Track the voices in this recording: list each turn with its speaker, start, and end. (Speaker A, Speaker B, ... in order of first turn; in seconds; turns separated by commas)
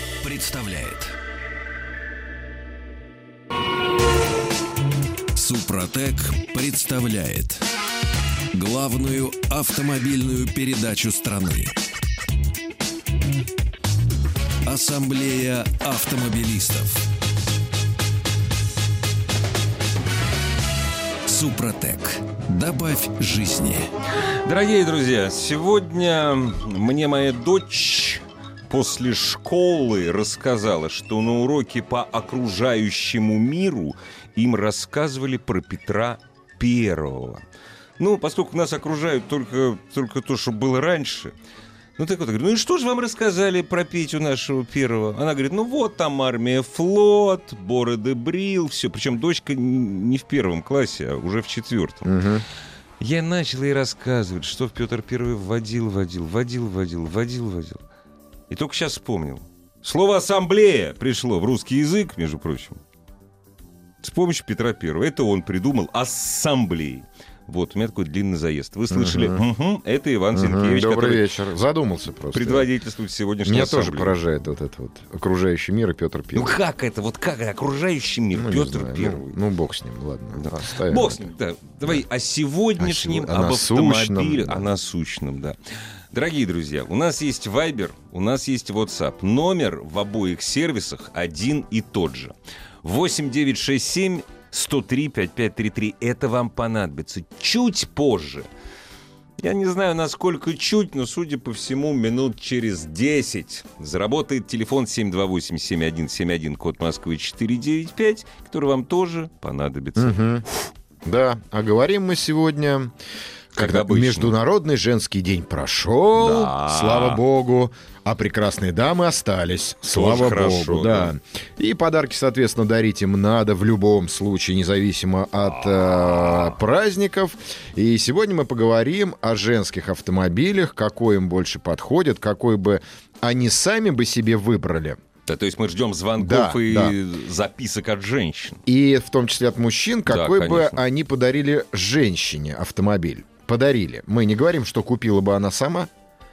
Speaker A: 0.2-1.1, Speaker A: 5.3-7.6, Speaker A: 8.5-11.7, Speaker A: 14.6-17.0, Speaker A: 21.2-23.9, Speaker B: 24.4-37.4, Speaker B: 38.0-41.3, Speaker B: 42.0-52.1, Speaker C: 52.0-52.4, Speaker B: 53.0-57.8, Speaker B: 58.5-62.8, Speaker B: 64.0-71.2, Speaker C: 68.9-69.4, Speaker C: 70.3-72.7, Speaker B: 72.3-74.2, Speaker C: 73.4-76.5, Speaker B: 76.3-79.3, Speaker C: 78.3-81.3, Speaker B: 80.3-85.6, Speaker C: 82.8-84.6, Speaker B: 86.1-98.5, Speaker B: 99.4-110.7, Speaker C: 110.0-110.5, Speaker C: 111.0-112.9, Speaker B: 113.5-114.3, Speaker C: 113.5-135.0, Speaker B: 116.2-117.2, Speaker B: 119.9-121.1, Speaker B: 125.5-126.5, Speaker B: 135.3-138.6, Speaker C: 136.2-136.9, Speaker C: 138.7-145.9, Speaker B: 140.1-140.8